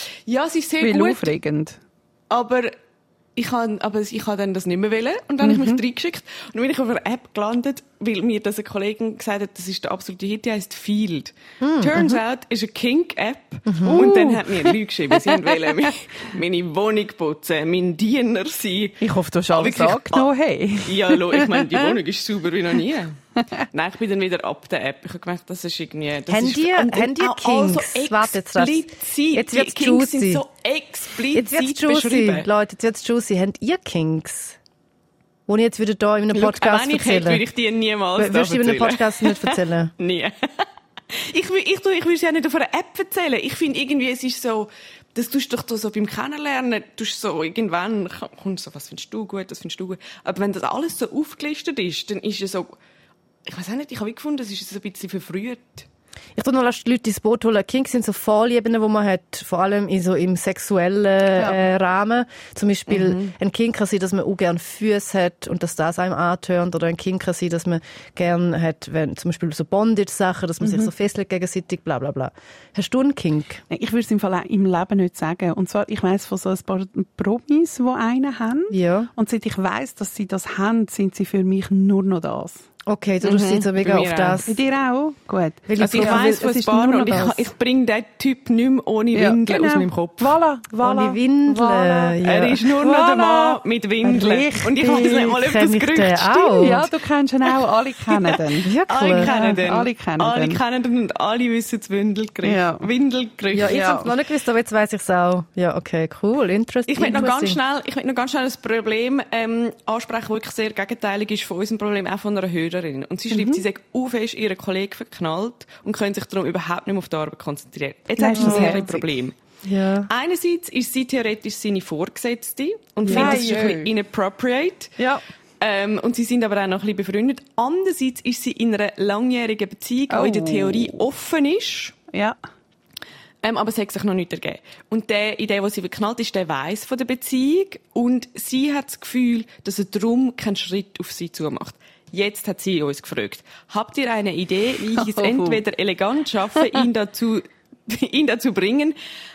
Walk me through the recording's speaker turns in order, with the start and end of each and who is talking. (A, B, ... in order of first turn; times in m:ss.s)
0:00.2-0:01.3 A
0:00.8-0:01.8 B
0:02.3-0:02.8 A
0:03.4-0:20.3 A
0:05.4-0:05.8 B
0:11.6-0:12.2 C
0:13.7-0:14.0 C
0:13.9-0:14.7 B
0:19.0-0:21.9 B
0:20.8-0:32.5 A
0:26.3-0:30.4 C
0:31.3-0:34.6 C
0:35.5-0:37.4 C
0:36.3-0:52.8 A
0:38.2-0:39.9 C
0:53.4-0:55.9 A
0:56.4-1:13.6 C
1:02.9-1:03.3 A
1:10.6-1:10.9 B
1:13.7-1:22.6 B
1:18.7-1:19.1 C
1:22.9-1:24.5 C
1:23.2-1:24.5 A
1:24.5-1:27.3 B
1:25.7-1:26.4 C
1:25.8-1:30.4 A
1:29.1-1:35.3 B
1:30.8-1:32.6 C
1:32.2-1:36.8 A
1:35.0-1:36.8 C
1:36.6-1:40.6 B
1:38.6-1:39.3 C
1:38.8-1:44.1 A
1:42.4-1:42.8 B
1:43.5-1:47.6 C
1:43.6-1:44.1 B
1:46.9-1:59.4 A
1:53.3-1:53.6 B
1:58.2-1:59.0 B
1:58.4-1:58.9 C
1:59.6-2:00.1 C
2:00.1-2:05.0 A
2:03.0-2:03.9 B
2:03.1-2:03.4 C
2:05.6-2:11.9 A
2:10.1-2:11.0 B
2:12.1-2:12.4 B
2:13.4-2:29.0 A
2:25.0-2:25.6 B